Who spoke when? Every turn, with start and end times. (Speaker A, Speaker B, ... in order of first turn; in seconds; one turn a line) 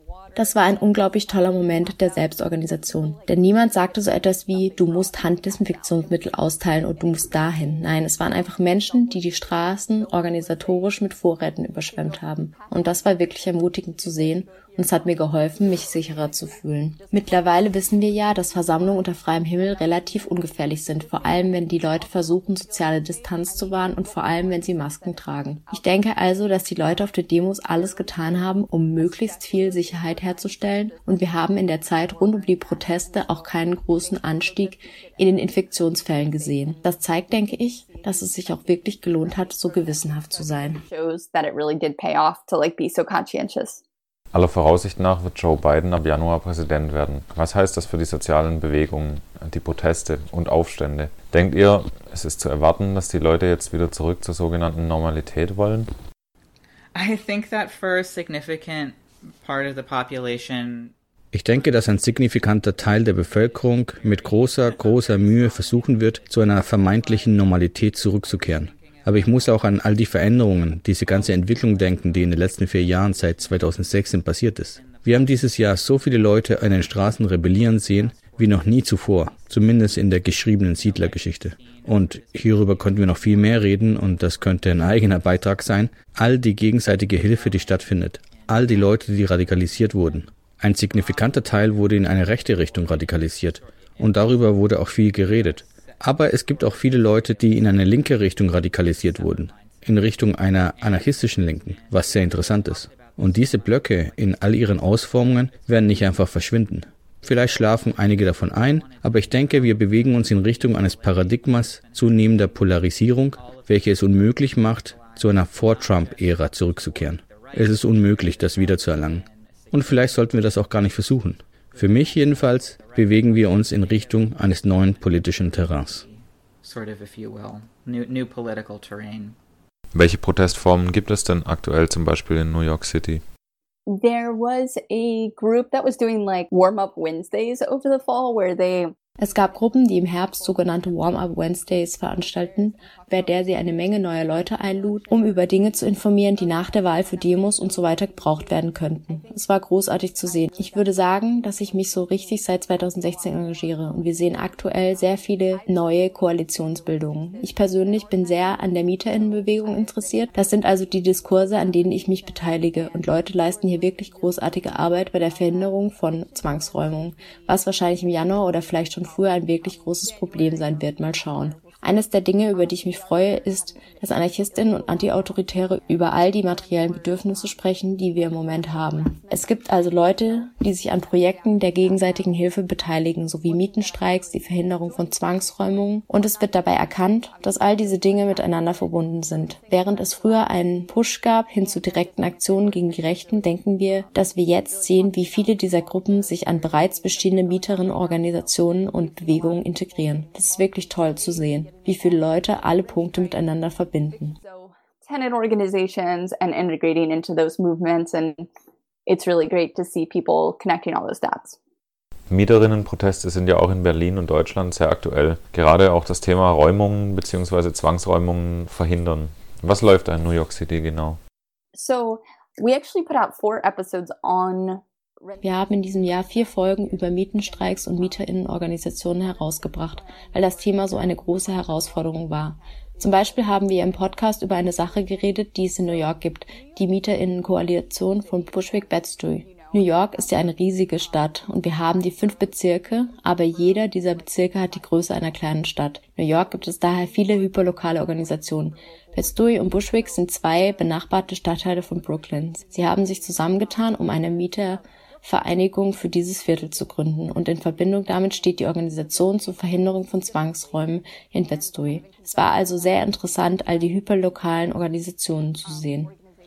Speaker A: 0.3-40.8
Speaker B: 40.8-43.8
Speaker C: 44.3-55.9
Speaker D: 56.9-60.9
Speaker E: 61.3-126.0
Speaker D: 64.0-64.3
Speaker D: 74.8-75.3
Speaker D: 78.1-78.4
Speaker D: 80.8-83.4
Speaker D: 91.0-91.2
Speaker D: 95.4-95.9
Speaker D: 96.5-97.6
Speaker D: 98.9-99.8
Speaker D: 100.8-103.7
Speaker D: 107.5-107.9
Speaker D: 108.5-111.4
Speaker D: 114.9-120.2
Speaker D: 121.7-124.3
Speaker D: 124.9-129.3
Speaker C: 129.9-133.2
Speaker B: 133.9-138.9
Speaker A: 139.2-204.4
Speaker B: 204.4-208.4
Speaker B: 209.1-211.6
Speaker C: 212.3-221.2
Speaker B: 221.7-225.4
Speaker A: 225.4-266.1